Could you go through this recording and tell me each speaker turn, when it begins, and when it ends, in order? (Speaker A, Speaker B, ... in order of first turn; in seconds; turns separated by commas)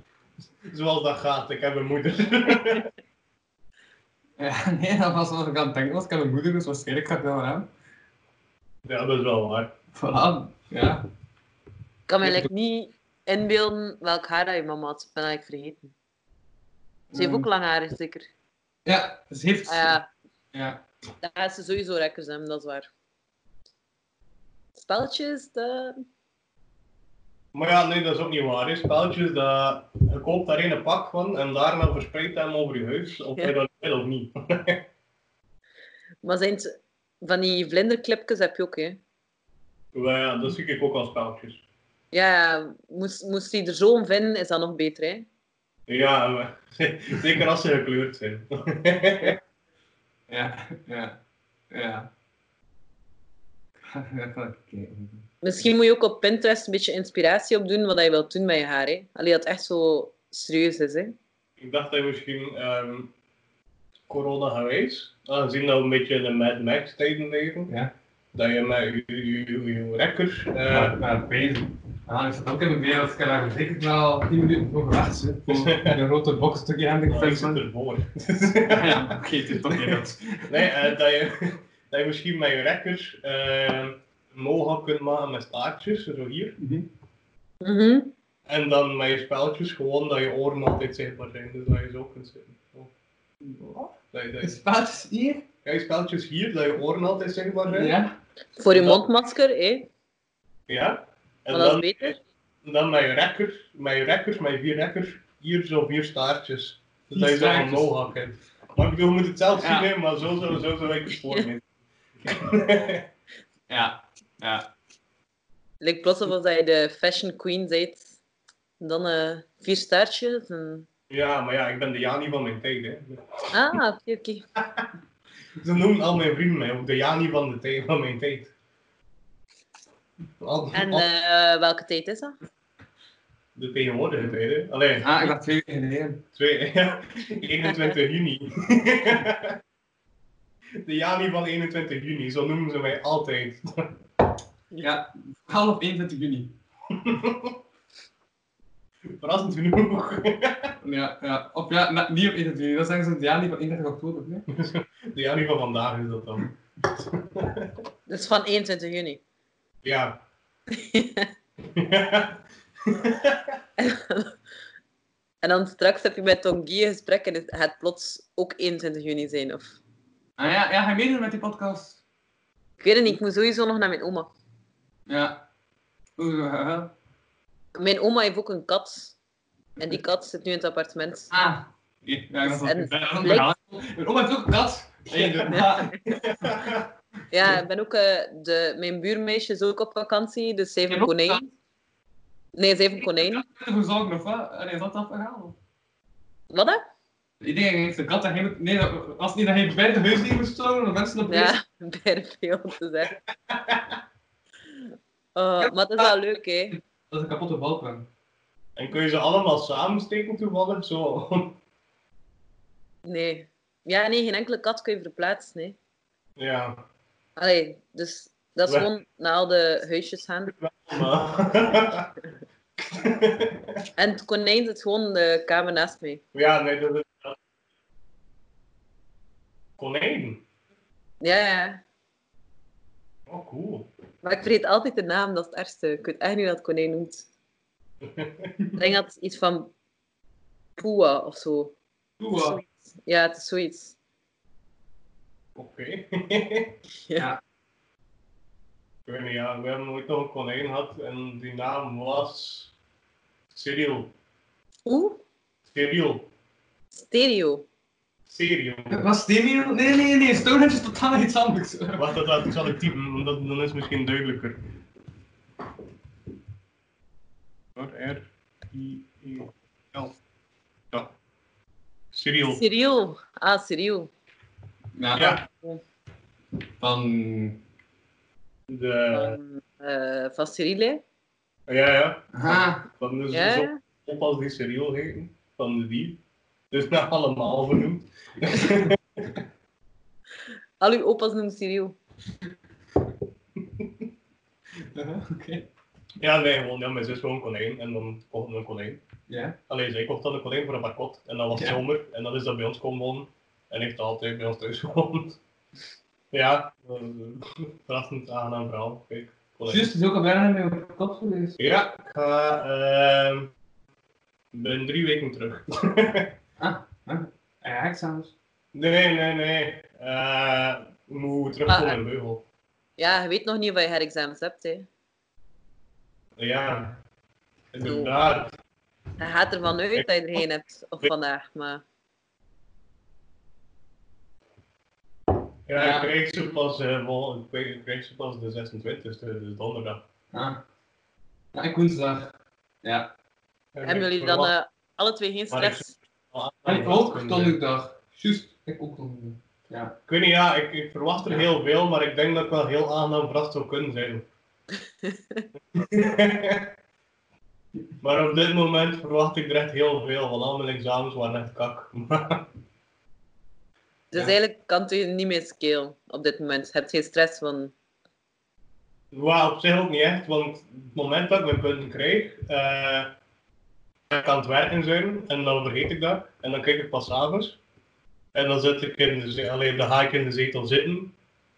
Speaker A: 0.7-2.9, Speaker B: 4.4-7.7, Speaker A: 8.8-9.7, Speaker B: 9.9-11.0, Speaker C: 12.1-15.9, Speaker B: 12.2-12.5, Speaker B: 17.1-17.5, Speaker C: 17.1-18.3, Speaker B: 18.8-20.0, Speaker C: 19.7-20.1, Speaker B: 20.5-20.8, Speaker C: 21.2-22.9, Speaker C: 24.8-26.0, Speaker A: 27.5-34.8, Speaker C: 36.2-39.0, Speaker A: 39.9-41.6, Speaker C: 42.1-45.3, Speaker A: 45.9-49.4, Speaker B: 50.3-51.2, Speaker B: 51.7-52.1, Speaker B: 53.8-55.3, Speaker C: 55.4-61.1, Speaker A: 61.6-63.1, Speaker A: 64.1-67.7, Speaker B: 67.7-67.9, Speaker A: 68.3-71.0, Speaker B: 70.7-77.6, Speaker A: 75.5-76.0, Speaker A: 77.1-79.2, Speaker B: 78.7-80.7, Speaker A: 79.7-86.6, Speaker B: 86.6-86.9, Speaker C: 87.6-88.1, Speaker A: 88.5-92.9, Speaker A: 93.5-94.6, Speaker B: 94.4-95.5, Speaker A: 95.6-97.9, Speaker B: 97.7-98.2, Speaker C: 98.6-99.9, Speaker A: 98.7-99.0, Speaker A: 100.7-111.6, Speaker C: 101.5-102.2, Speaker B: 107.1-107.9, Speaker B: 109.6-109.9, Speaker A: 112.2-113.0, Speaker B: 113.7-114.7, Speaker C: 115.8-118.2, Speaker C: 118.8-120.9, Speaker A: 121.1-123.5, Speaker C: 123.5-124.5, Speaker A: 125.6-128.5, Speaker A: 130.4-131.0, Speaker C: 130.7-132.3, Speaker A: 133.6-135.1, Speaker B: 135.0-136.2, Speaker A: 136.3-139.6, Speaker A: 140.8-144.0, Speaker B: 144.8-146.6, Speaker A: 147.0-147.5, Speaker A: 149.2-150.8, Speaker B: 150.8-154.4, Speaker A: 154.5-157.7, Speaker C: 158.1-159.2, Speaker A: 159.8-160.2, Speaker C: 160.7-161.3, Speaker A: 161.7-163.5, Speaker C: 163.8-164.3, Speaker C: 165.4-169.8, Speaker B: 170.4-172.0, Speaker C: 172.8-174.3, Speaker B: 175.1-175.4, Speaker B: 176.2-176.9, Speaker C: 177.7-179.2, Speaker C: 179.8-181.3, Speaker B: 181.3-186.7, Speaker C: 182.5-183.5, Speaker A: 185.2-185.5, Speaker C: 185.5-186.0, Speaker A: 186.1-186.8, Speaker C: 187.3-191.5, Speaker B: 190.9-191.4, Speaker C: 192.5-193.4, Speaker B: 193.0-195.6, Speaker C: 196.5-196.8, Speaker B: 197.4-201.5, Speaker C: 201.3-203.2, Speaker A: 203.5-203.8, Speaker C: 205.3-206.8, Speaker B: 205.6-206.1, Speaker B: 206.7-208.1, Speaker A: 208.8-211.6, Speaker C: 213.0-215.8, Speaker A: 216.4-216.8, Speaker C: 217.4-220.5, Speaker A: 220.5-222.1, Speaker A: 222.8-223.8, Speaker C: 224.0-226.2, Speaker A: 226.3-227.3, Speaker A: 229.8-230.4, Speaker C: 231.2-231.8, Speaker A: 233.3-233.9, Speaker C: 234.2-237.3, Speaker A: 238.0-238.5, Speaker C: 238.8-239.7, Speaker C: 240.8-241.7, Speaker B: 242.2-242.6, Speaker C: 242.3-243.9, Speaker A: 245.6-246.8, Speaker A: 249.1-252.7, Speaker A: 253.5-254.1, Speaker C: 254.8-255.2, Speaker A: 255.7-256.3, Speaker C: 256.9-257.7, Speaker A: 258.3-259.0, Speaker B: 258.9-262.4, Speaker A: 261.9-264.6, Speaker A: 267.7-270.1, Speaker A: 272.1-272.6, Speaker C: 272.4-274.1, Speaker B: 274.9-275.4, Speaker A: 275.1-275.4, Speaker C: 275.5-275.8, Speaker B: 276.8-277.6, Speaker A: 278.7-279.4, Speaker C: 279.1-281.0, Speaker A: 281.7-286.2, Speaker B: 282.3-282.8, Speaker C: 283.3-283.8, Speaker A: 286.7-289.4, Speaker C: 290.8-292.0, Speaker B: 294.8-295.7, Speaker A: 296.2-299.0, Speaker B: 299.3-299.6, Speaker A: 299.7-305.4, Speaker B: 301.5-301.8, Speaker A: 306.3-309.9, Speaker B: 309.7-311.6, Speaker A: 311.6-313.5, Speaker A: 314.5-316.3, Speaker B: 316.6-318.3, Speaker A: 318.7-322.4, Speaker C: 321.7-322.0, Speaker C: 323.0-324.9, Speaker A: 326.4-327.0, Speaker A: 327.7-328.5, Speaker C: 327.8-328.1, Speaker C: 329.2-331.8, Speaker A: 335.7-340.0, Speaker B: 335.8-336.1, Speaker B: 340.3-340.6, Speaker B: 341.5-343.1, Speaker A: 343.7-344.5, Speaker C: 343.8-345.9, Speaker A: 345.5-347.6, Speaker B: 346.6-349.9, Speaker A: 350.1-354.3, Speaker C: 355.0-355.4, Speaker A: 355.7-356.7, Speaker A: 358.0-362.5, Speaker C: 364.1-367.7, Speaker A: 369.1-373.1, Speaker A: 374.1-377.6, Speaker A: 378.3-381.1